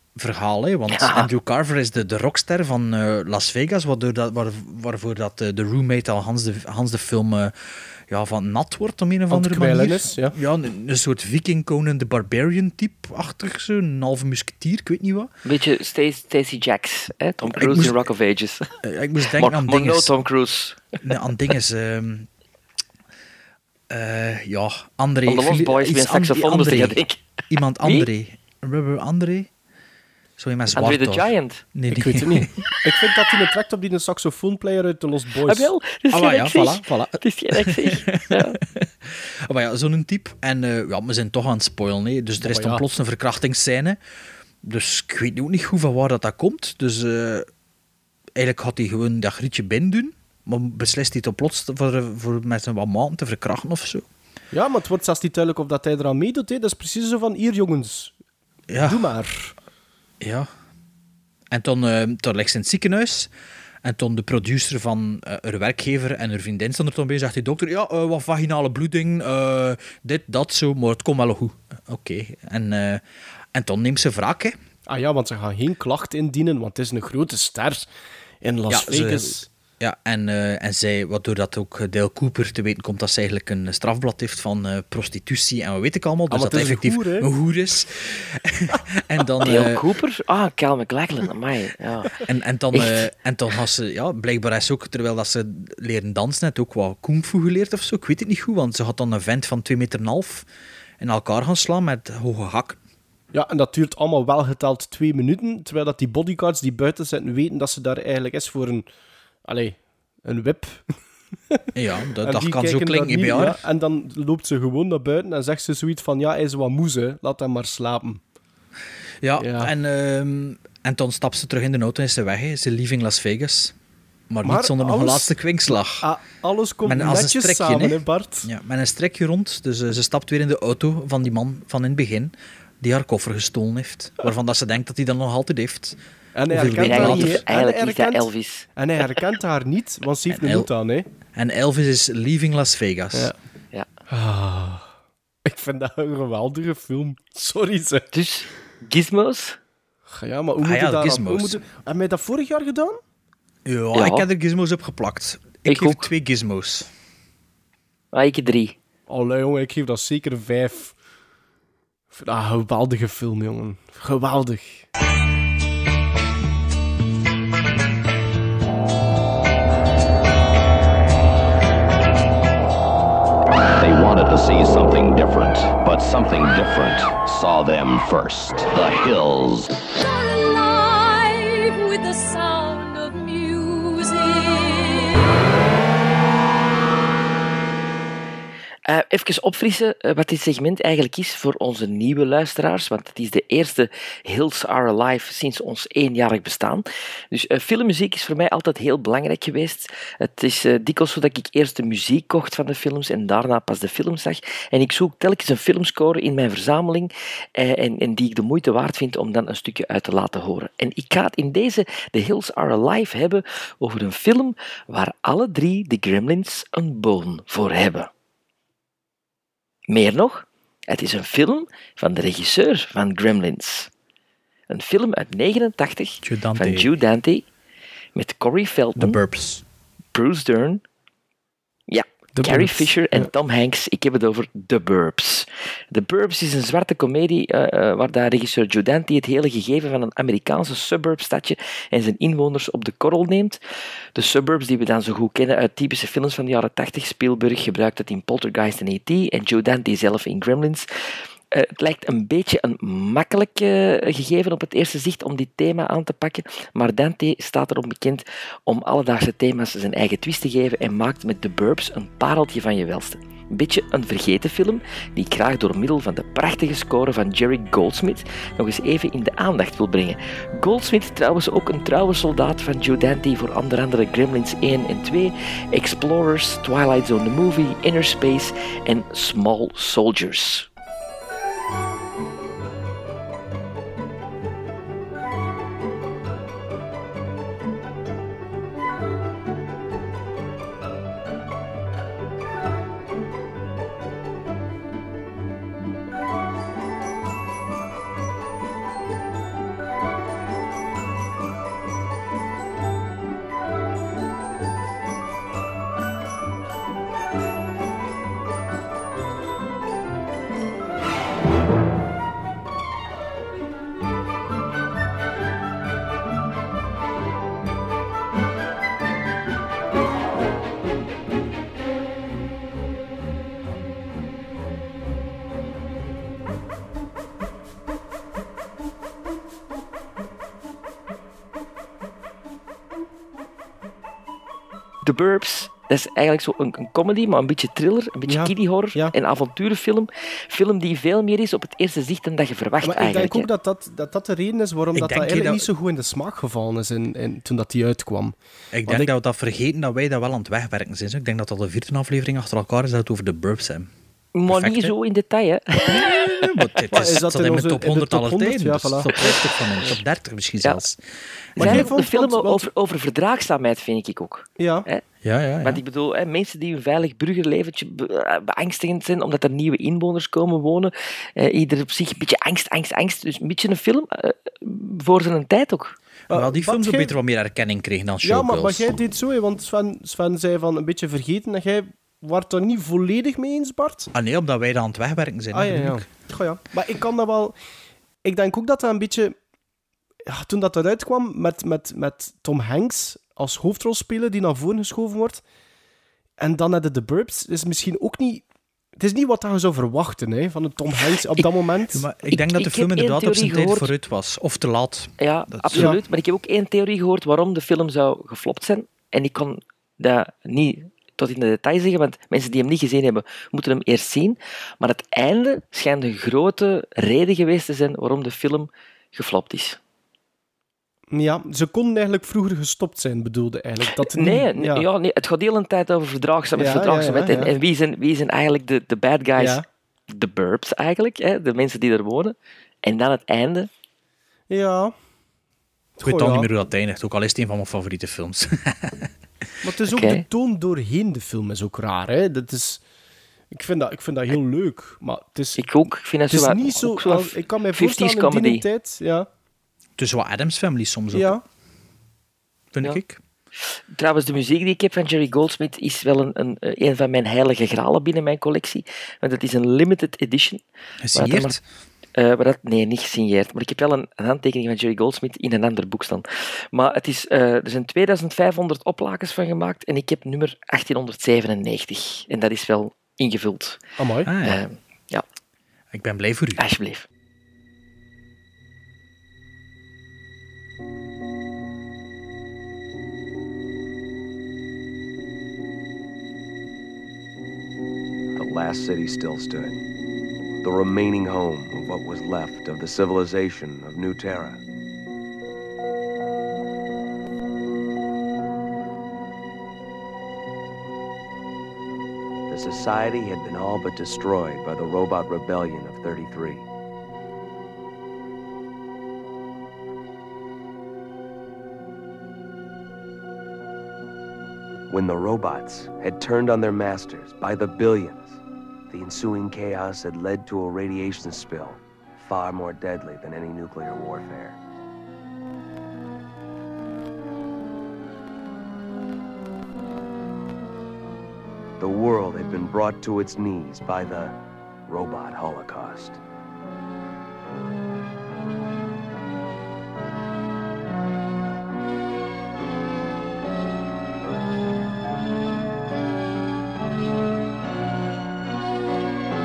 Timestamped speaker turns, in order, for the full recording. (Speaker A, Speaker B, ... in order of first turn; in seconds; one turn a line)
Speaker A: 0.2-7.5
Speaker B: 0.9-1.3
Speaker A: 8.1-15.3
Speaker C: 9.3-10.3
Speaker B: 15.4-18.6
Speaker A: 17.6-18.0
Speaker A: 18.8-20.1
Speaker B: 19.4-20.9
Speaker A: 21.0-22.3
Speaker A: 23.9-27.0
Speaker B: 25.3-27.2
Speaker A: 27.5-29.5
Speaker A: 30.4-32.5
Speaker B: 30.7-31.6
Speaker C: 31.9-35.7
Speaker B: 35.5-38.6
Speaker A: 36.1-44.0
Speaker C: 42.4-42.8
Speaker A: 44.6-47.5
Speaker A: 48.4-54.1
Speaker C: 54.5-58.1
Speaker A: 58.7-59.1
Speaker C: 58.8-59.5
Speaker A: 60.2-60.5
Speaker A: 61.5-63.3
Speaker A: 63.8-73.0
Speaker A: 73.5-74.5
Speaker C: 74.9-77.9
Speaker C: 78.4-79.5
Speaker A: 78.7-89.8
Speaker C: 86.3-87.3
Speaker B: 89.4-92.2
Speaker A: 92.3-100.5
Speaker B: 92.7-93.0
Speaker A: 101.0-102.8
Speaker C: 103.3-108.9
Speaker C: 109.5-110.8
Speaker A: 111.8-113.6
Speaker C: 112.2-118.2
Speaker A: 119.2-123.7
Speaker C: 119.4-119.7
Speaker A: 124.3-126.1
Speaker C: 124.4-128.5
Speaker A: 126.9-136.0
Speaker C: 136.3-141.1
Speaker A: 136.5-137.4
Speaker B: 136.8-138.7
Speaker A: 140.3-140.7
Speaker A: 141.3-143.3
Speaker C: 144.1-144.8
Speaker C: 145.4-148.1
Speaker B: 148.1-149.6
Speaker C: 150.1-153.0
Speaker A: 150.6-151.6
Speaker A: 153.7-156.9
Speaker B: 153.9-154.2
Speaker B: 155.7-156.1
Speaker B: 158.1-158.8
Speaker C: 159.1-160.9
Speaker C: 162.1-164.8
Speaker D: 173.8-179.7
Speaker E: 180.0-185.2
Speaker B: 188.9-218.1
Speaker B: 219.9-223.9
Speaker B: 224.7-227.4
Speaker A: 226.2-226.9
Speaker B: 228.2-229.2
Speaker A: 229.0-229.6
Speaker B: 230.1-230.8
Speaker B: 231.9-243.6
Speaker C: 232.3-233.3
Speaker B: 244.2-250.9
Speaker B: 251.5-280.7
Speaker B: 335.0-343.5
Speaker C: 338.3-339.1
Speaker C: 342.8-348.4
Speaker A: 344.9-345.7
Speaker A: 348.7-353.9
Speaker C: 348.9-349.1
Speaker B: 354.4-356.4
Speaker A: 354.5-354.9
Speaker A: 355.9-361.0
Speaker C: 356.9-360.0
Speaker A: 361.6-361.9
Speaker C: 361.6-362.7
Speaker B: 361.6-365.0
Speaker C: 364.6-364.9
Speaker A: 365.2-365.8
Speaker B: 365.6-375.9
Speaker C: 376.3-377.1
Speaker A: 376.3-379.0
Speaker C: 378.2-384.1
Speaker A: 384.1-386.1
Speaker C: 385.5-387.6
Speaker C: 388.2-389.4
Speaker C: 390.3-395.4
Speaker C: 396.4-398.4
Speaker C: 399.0-402.0
Speaker A: 401.9-405.9
Speaker B: 402.3-403.9
Speaker B: 405.2-419.8
Speaker C: 405.8-406.0
Speaker C: 421.1-424.9
Speaker B: 424.1-433.7
Speaker C: 426.6-427.5
Speaker C: 429.4-429.6
Speaker C: 434.5-434.9
Speaker C: 436.0-436.5
Speaker A: 436.0-439.1
Speaker C: 439.6-442.8
Speaker B: 439.9-440.2
Speaker C: 443.5-445.6
Speaker B: 445.6-448.6
Speaker C: 446.3-449.3
Speaker A: 450.0-451.4
Speaker C: 451.1-451.4
Speaker A: 452.7-453.2
Speaker B: 453.9-460.6
Speaker A: 461.0-461.6
Speaker B: 461.1-461.6
Speaker B: 462.2-473.8
Speaker C: 474.0-474.3
Speaker A: 474.3-474.6
Speaker B: 474.4-475.2
Speaker A: 475.9-476.6
Speaker B: 476.6-477.1
Speaker F: 488.4-489.8
Speaker F: 490.6-494.6
Speaker F: 502.5-506.6
Speaker F: 514.9-524.6
Speaker F: 531.8-534.4
Speaker F: 534.9-536.2